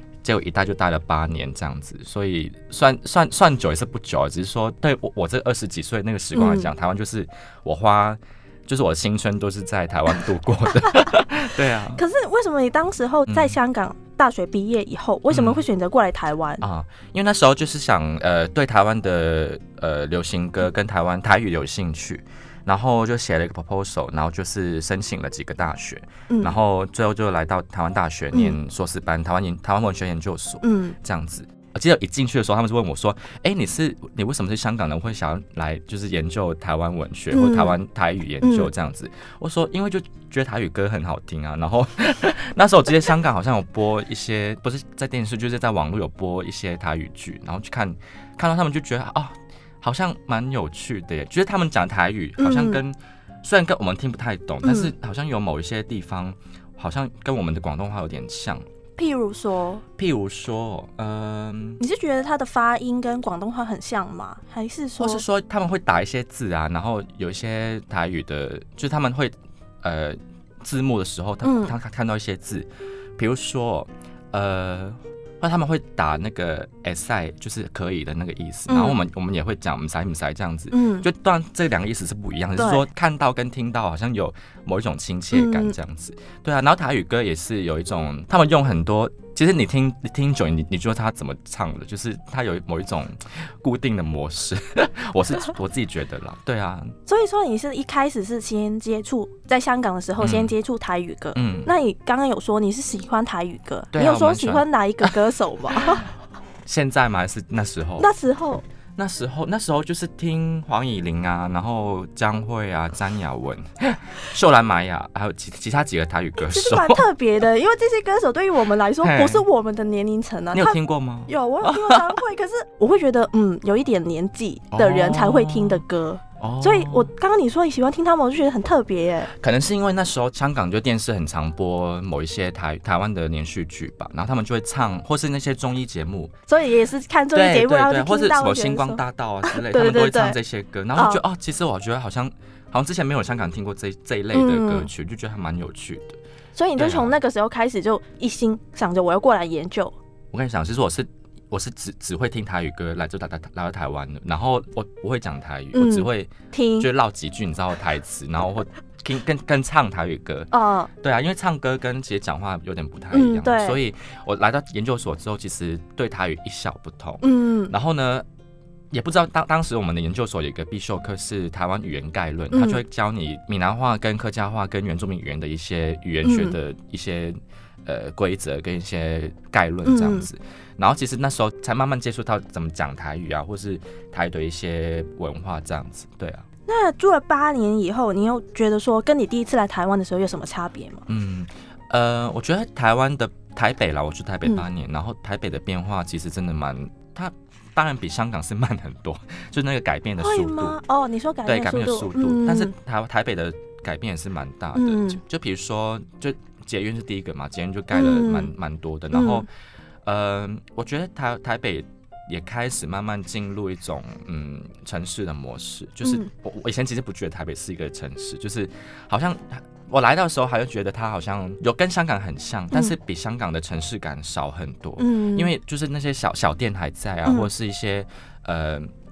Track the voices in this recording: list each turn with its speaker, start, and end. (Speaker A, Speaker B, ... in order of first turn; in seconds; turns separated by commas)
Speaker A: 0.2-12.0, Speaker B: 6.3-6.7, Speaker B: 11.9-16.6, Speaker A: 13.3-13.6, Speaker A: 15.3-15.6, Speaker A: 16.6-58.6, Speaker B: 26.3-26.5, Speaker B: 30.6-30.9, Speaker B: 37.3-37.8, Speaker B: 38.4-38.7, Speaker B: 52.4-52.8, Speaker B: 54.6-54.9, Speaker B: 59.0-59.8, Speaker A: 60.0-61.8, Speaker B: 61.8-65.2, Speaker A: 65.0-97.0, Speaker B: 71.4-71.7, Speaker B: 78.7-79.0, Speaker B: 80.7-81.1, Speaker B: 82.6-82.8, Speaker B: 85.3-85.8, Speaker B: 97.1-106.1, Speaker A: 100.2-100.5, Speaker A: 101.3-101.7, Speaker A: 103.9-105.1, Speaker A: 105.8-106.0, Speaker A: 106.6-108.1, Speaker B: 108.0-108.6, Speaker A: 109.0-117.0, Speaker B: 116.4-129.3, Speaker A: 119.0-119.5, Speaker A: 120.5-122.2, Speaker A: 124.7-125.8, Speaker A: 126.4-127.1, Speaker A: 129.3-136.3, Speaker B: 136.5-140.4, Speaker A: 137.3-146.2, Speaker B: 140.9-141.2, Speaker B: 144.3-144.9, Speaker B: 146.5-149.9, Speaker A: 146.8-147.2, Speaker A: 150.3-168.2, Speaker B: 155.7-156.9, Speaker B: 160.5-160.9, Speaker B: 163.1-163.8, Speaker B: 167.2-167.7, Speaker A: 168.9-186.4, Speaker B: 172.5-172.8, Speaker B: 176.2-176.6, Speaker B: 179.8-180.3, Speaker B: 186.7-191.0, Speaker A: 191.1-200.8, Speaker B: 200.2-202.7, Speaker A: 201.4-209.5, Speaker B: 204.7-205.2, Speaker B: 207.9-208.5, Speaker B: 209.1-209.4, Speaker A: 210.0-228.9, Speaker B: 216.0-216.3, Speaker B: 225.0-225.5